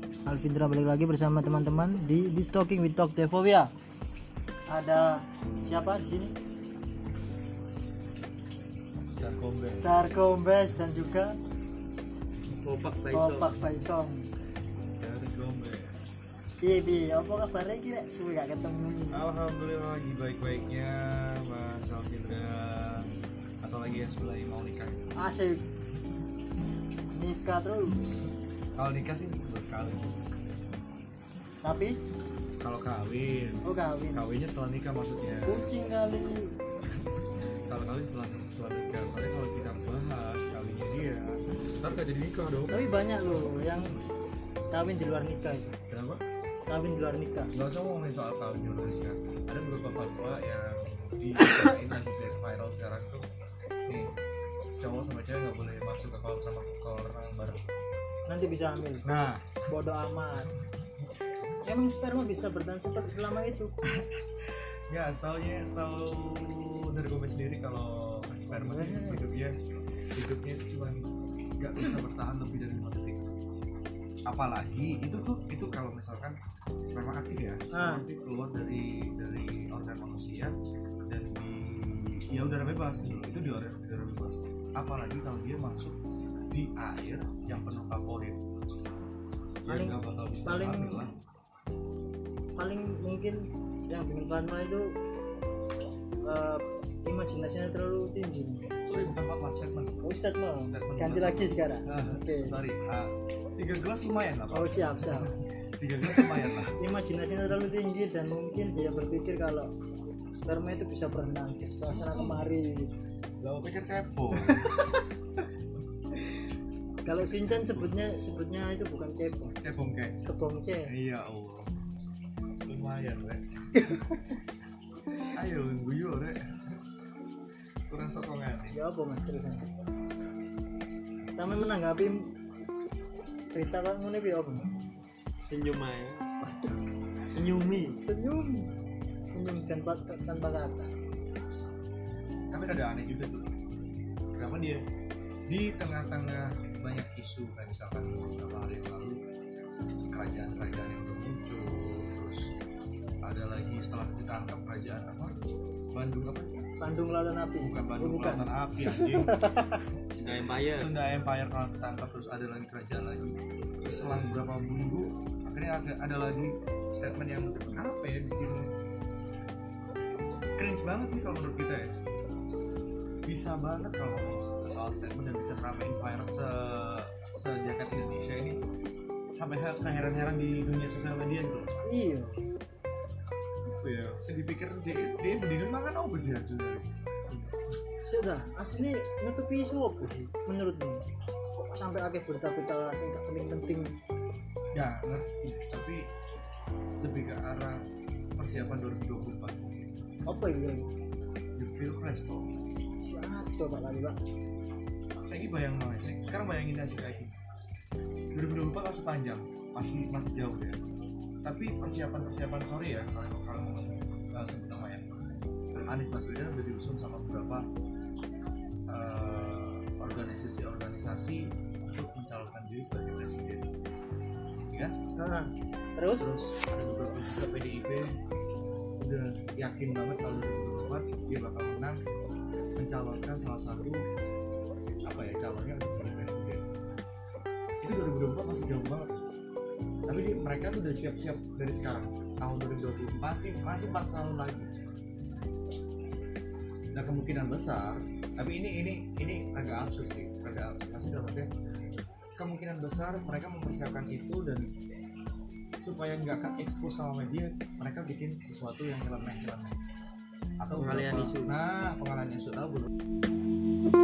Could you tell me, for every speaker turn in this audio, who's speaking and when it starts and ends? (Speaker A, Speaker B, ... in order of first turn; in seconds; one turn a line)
Speaker A: 0.2-3.7
Speaker A: 4.7-6.4
Speaker B: 9.2-10.1
Speaker A: 9.8-11.3
Speaker C: 12.6-13.6
Speaker A: 13.1-14.3
Speaker B: 15.0-16.0
Speaker A: 16.6-19.3
Speaker B: 19.1-23.1
Speaker B: 23.6-25.0
Speaker A: 25.2-25.6
Speaker A: 27.1-28.0
Speaker B: 28.8-30.1
Speaker A: 31.6-31.9
Speaker B: 32.6-33.6
Speaker A: 33.6-34.3
Speaker B: 34.1-35.7
Speaker A: 35.4-36.5
Speaker B: 37.7-43.0
Speaker A: 42.7-44.0
Speaker A: 44.7-45.7
Speaker B: 45.9-46.2
Speaker A: 46.7-47.5
Speaker B: 47.5-53.3
Speaker B: 53.9-54.1
Speaker B: 54.8-57.6
Speaker A: 58.3-59.0
Speaker B: 59.0-59.5
Speaker A: 59.7-60.5
Speaker A: 61.6-63.7
Speaker B: 63.9-69.5
Speaker A: 68.5-69.2
Speaker B: 70.1-73.3
Speaker B: 74.3-80.5
Speaker A: 77.7-78.1
Speaker B: 81.1-86.0
Speaker B: 86.5-88.4
Speaker B: 89.6-91.1
Speaker A: 89.7-91.0
Speaker A: 92.6-94.9
Speaker A: 96.2-98.8
Speaker B: 98.8-100.0
Speaker A: 100.0-102.6
Speaker B: 100.7-106.8
Speaker A: 104.5-105.3
Speaker A: 106.1-109.7
Speaker A: 110.4-112.9
Speaker B: 111.9-112.4
Speaker B: 113.4-114.8
Speaker A: 114.4-115.0
Speaker A: 117.0-119.6
Speaker B: 117.3-118.0
Speaker B: 119.6-120.2
Speaker A: 120.2-120.9
Speaker B: 120.8-121.8
Speaker B: 122.6-124.0
Speaker B: 125.2-126.7
Speaker B: 127.9-128.8
Speaker A: 128.7-129.8
Speaker A: 131.3-132.3
Speaker A: 133.5-134.7
Speaker C: 135.4-136.2
Speaker C: 137.3-137.9
Speaker A: 137.9-138.7
Speaker A: 139.2-140.9
Speaker B: 142.5-143.5
Speaker B: 144.3-144.8
Speaker B: 145.5-149.2
Speaker B: 150.1-152.5
Speaker B: 153.2-155.3
Speaker B: 155.9-156.7
Speaker A: 156.8-159.8
Speaker B: 157.6-159.4
Speaker C: 160.2-160.9
Speaker B: 160.7-168.7
Speaker B: 170.6-171.9
Speaker B: 173.2-178.6
Speaker B: 179.3-181.7
Speaker A: 181.8-182.4
Speaker B: 183.7-186.9
Speaker A: 188.0-191.0
Speaker A: 191.6-193.9
Speaker B: 194.7-196.1
Speaker B: 197.0-197.8
Speaker B: 198.4-199.8
Speaker A: 200.3-200.9
Speaker B: 201.6-202.5
Speaker A: 203.1-204.2
Speaker B: 205.2-207.3
Speaker B: 208.3-210.8
Speaker B: 211.4-215.0
Speaker B: 215.7-217.7
Speaker B: 218.9-223.7
Speaker B: 224.7-224.9
Speaker A: 225.2-226.3
Speaker B: 226.2-228.1
Speaker B: 229.0-232.0
Speaker B: 232.8-234.0
Speaker B: 235.1-236.6
Speaker B: 237.8-239.1
Speaker B: 240.1-244.7
Speaker B: 246.9-251.5
Speaker B: 252.4-254.7
Speaker B: 255.8-259.8
Speaker B: 260.6-262.9
Speaker C: 260.7-261.5